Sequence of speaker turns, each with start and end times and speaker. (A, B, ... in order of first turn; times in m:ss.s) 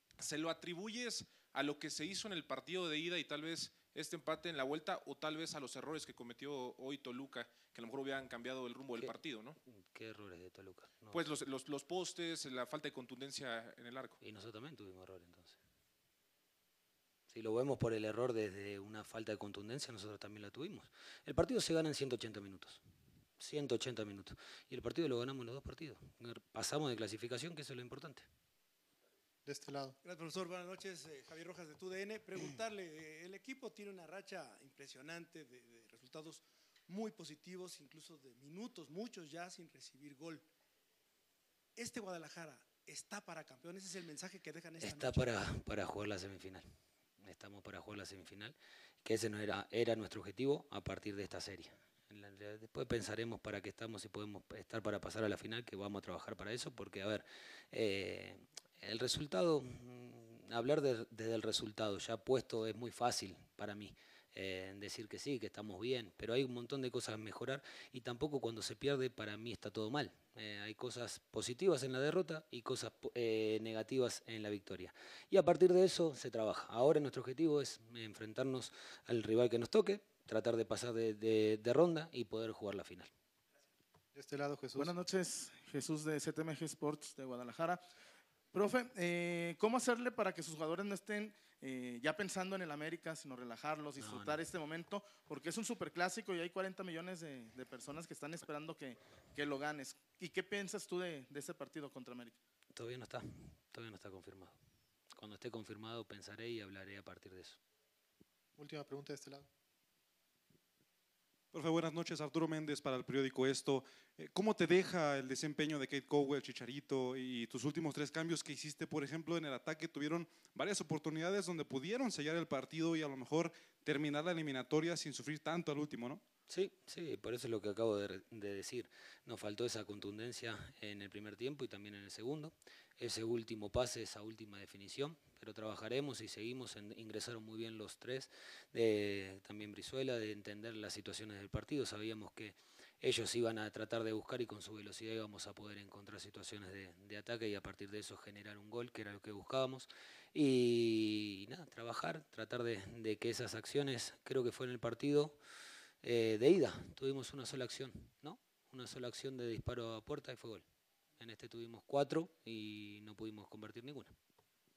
0:00.2-0:09.6 A
0:09.9-0:11.2 B
0:11.1-0:14.2 A
0:14.2-0:15.6 B
0:17.3-0:22.8 B
0:23.4-0:28.2 B
0:29.4-0:30.0 C
0:30.0-0:40.4 D
0:41.8-0:45.4 D
0:44.8-0:46.6 B
0:47.2-1:23.1 B
1:24.1-1:25.0 C
1:24.7-1:27.8 E
1:28.5-1:42.4 E
1:34.0-1:34.4 B
1:42.7-1:44.6 B
1:45.1-1:47.6 B
1:48.6-1:49.5 C
1:51.5-2:06.2 F
2:06.5-2:35.4 B
2:36.0-2:40.6 B
2:41.2-2:44.1 B